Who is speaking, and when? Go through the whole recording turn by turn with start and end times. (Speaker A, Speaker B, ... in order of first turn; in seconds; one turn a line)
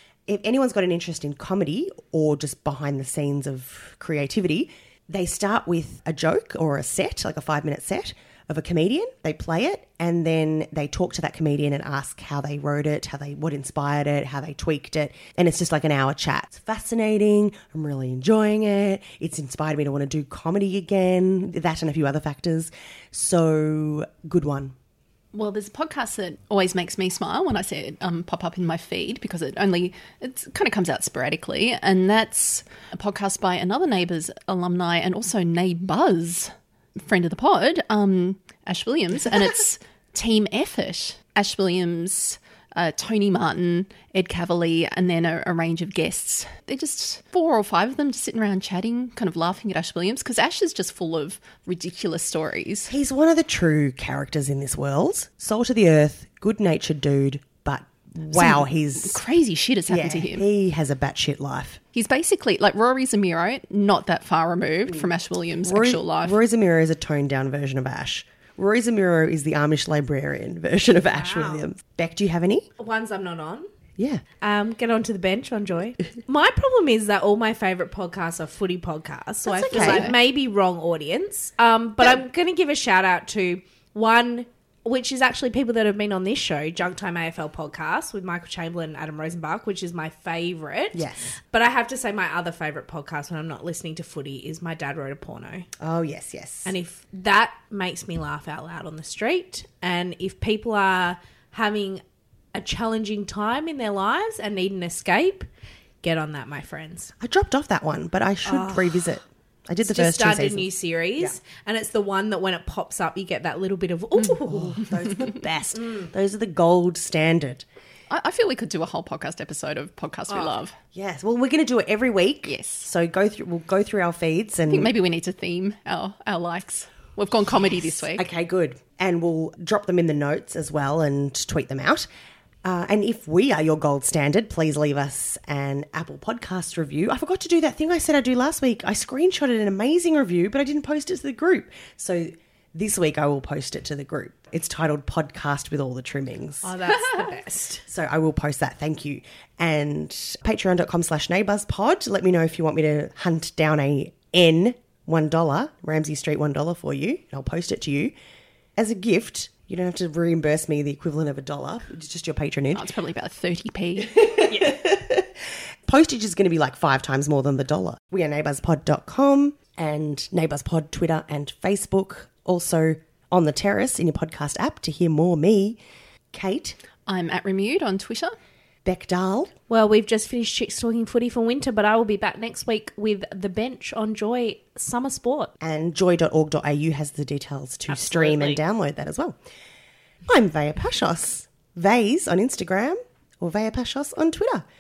Speaker A: 0.3-24.8
Speaker B: 25.3-52.9
Speaker A: 52.9-59.2
Speaker B: 58.3-60.5
Speaker A: 59.9-61.8
Speaker B: 61.9-66.4
Speaker A: 65.6-72.7
Speaker C: 71.1-71.7
Speaker C: 72.8-73.7
Speaker A: 74.0-74.2
Speaker C: 74.4-95.7
Speaker A: 79.5-80.2
Speaker A: 90.9-91.4
Speaker A: 95.8-96.7
Speaker C: 96.7-102.0
Speaker C: 102.5-105.5
Speaker C: 106.0-107.1
Speaker A: 107.2-111.4
Speaker C: 108.5-109.2
Speaker C: 109.9-114.9
Speaker A: 114.5-117.7
Speaker C: 115.8-116.1
Speaker B: 118.1-120.8
Speaker A: 120.9-124.9
Speaker B: 122.5-122.9
Speaker B: 124.7-128.2
Speaker A: 128.1-132.1
Speaker A: 132.7-147.1
Speaker C: 146.6-147.8
Speaker A: 147.8-158.1
Speaker A: 158.8-162.9
Speaker B: 162.7-164.4
Speaker A: 164.0-175.8
Speaker C: 164.5-164.7
Speaker A: 176.3-176.8
Speaker B: 177.1-178.3
Speaker A: 178.8-179.5
Speaker C: 179.7-185.5
Speaker A: 185.6-189.4
Speaker C: 187.9-188.6
Speaker A: 190.3-194.7